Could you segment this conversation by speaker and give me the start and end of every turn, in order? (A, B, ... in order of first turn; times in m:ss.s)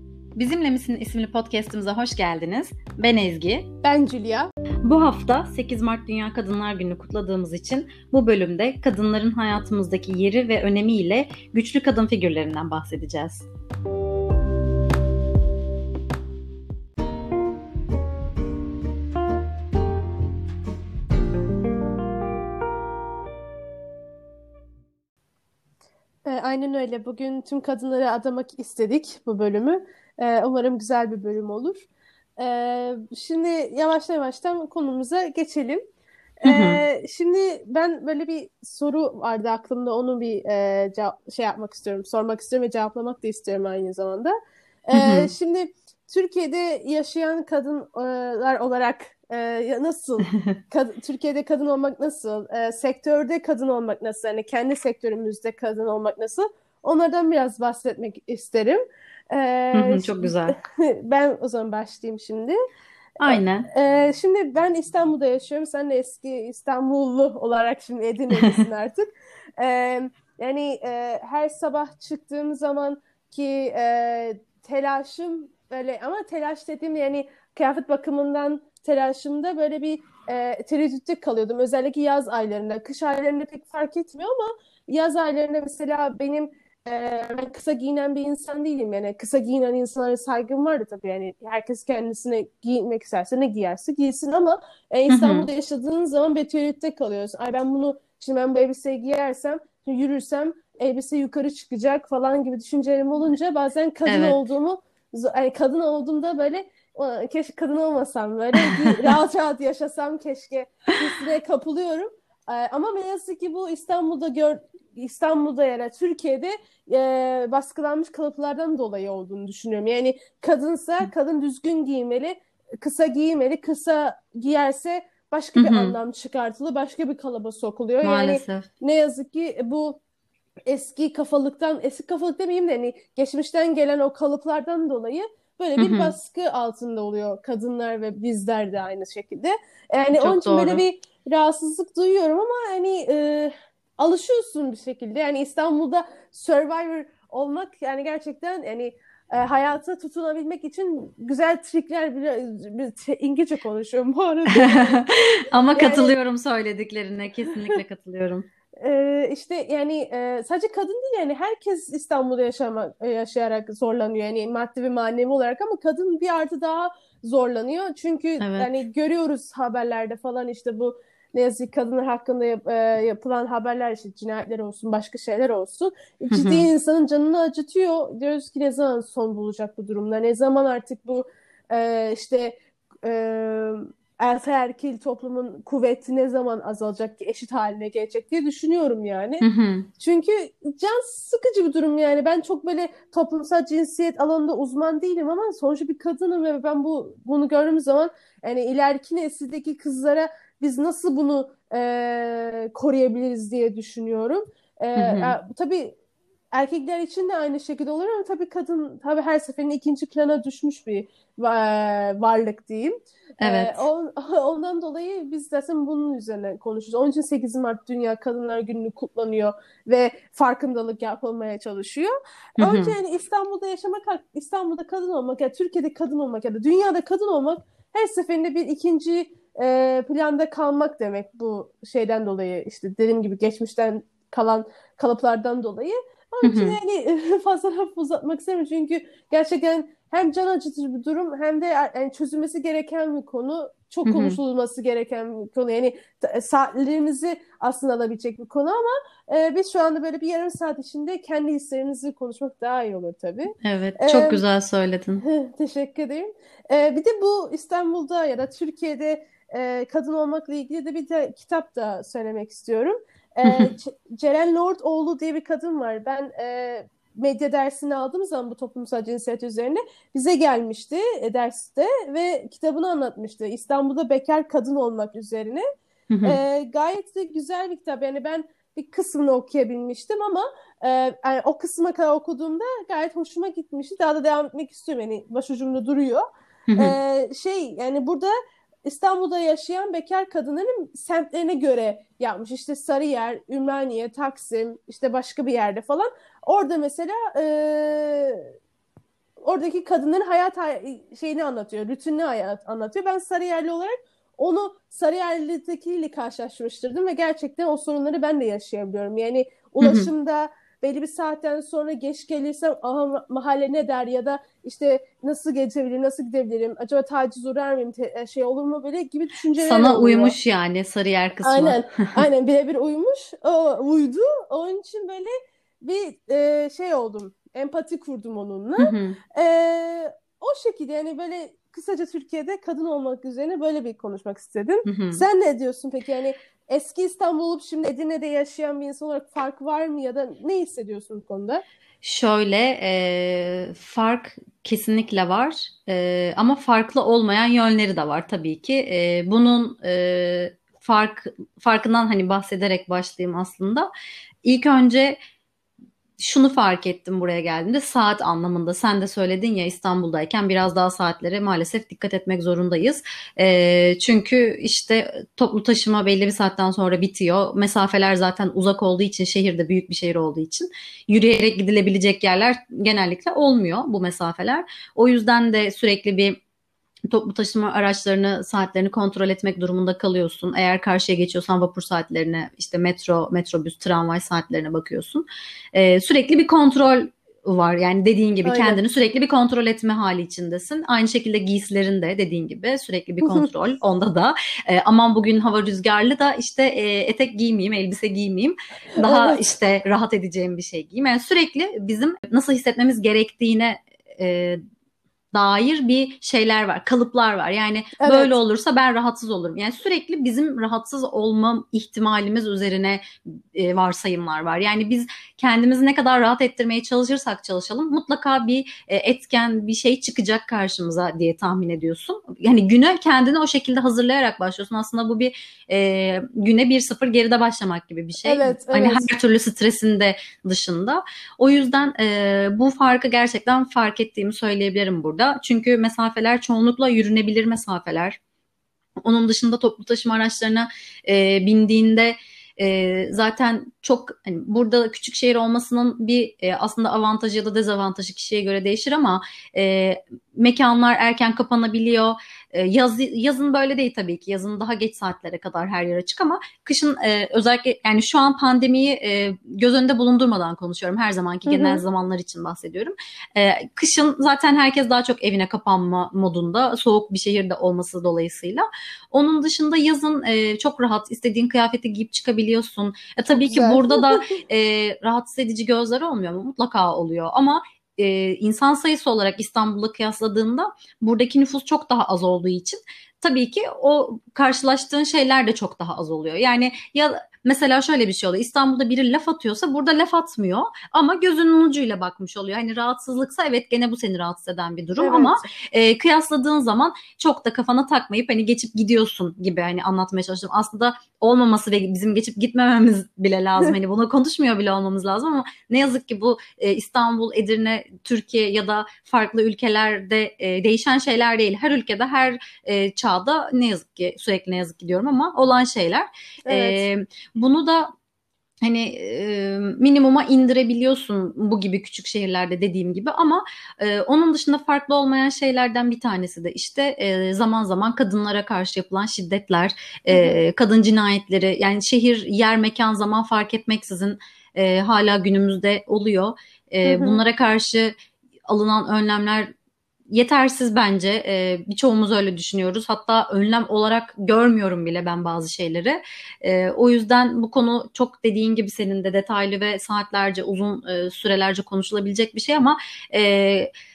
0:00.4-0:03.7 A
0:03.8-0:04.5 B
0:04.8-0:13.5 A
0:26.3-0:31.9 B
0:32.4-0:35.8 B
0:36.4-0:44.3 B
0:36.5-0:36.8 A
0:44.9-1:02.6 B
0:44.9-0:45.3 A
0:50.3-0:50.6 A
0:59.7-1:00.6 A
1:03.2-1:03.7 A
1:03.3-2:10.0 B
1:35.1-1:35.5 A
1:44.1-1:44.4 A
1:48.6-1:49.1 A
2:05.6-2:06.0 A
2:08.0-2:08.7 A
2:10.7-2:36.1 B
2:15.8-2:16.2 A
2:20.1-2:20.8 A
2:34.5-2:38.5 A
2:38.8-3:09.5 B
2:48.4-2:48.7 A
2:56.3-2:56.7 A
3:09.4-3:09.9 A
3:10.0-3:25.9 B
3:25.0-3:25.4 A
3:26.5-4:14.4 B
3:33.4-3:33.8 A
3:42.6-3:43.0 A
3:56.4-3:56.8 A
4:04.1-4:04.4 A
4:13.6-4:15.2 A
4:15.2-4:35.6 B
4:23.4-4:23.7 A
4:36.1-4:36.4 A
4:36.2-4:48.3 B
4:46.7-4:47.0 A
4:48.8-4:58.4 B
4:59.4-5:20.4 B
5:09.8-5:10.1 A
5:19.6-5:22.2 A
5:21.4-5:41.6 B
5:28.8-5:29.2 A
5:34.9-5:35.2 A
5:42.0-5:53.9 A
5:54.4-5:55.2 A
5:56.2-6:16.4 A
6:17.1-6:44.6 A
6:28.4-6:28.8 B
6:39.0-6:39.4 B
6:45.3-6:53.0 A
6:48.0-6:48.4 B
6:53.5-7:18.2 A
7:08.2-7:09.1 B
7:19.0-8:37.9 A
7:41.5-7:41.8 B
7:53.3-7:54.4 B
8:15.0-8:15.5 B
8:36.5-8:36.8 B
8:38.6-8:57.9 A
8:50.1-8:50.4 B
8:56.8-8:57.2 B
8:58.5-8:59.5 A
9:00.1-9:13.7 A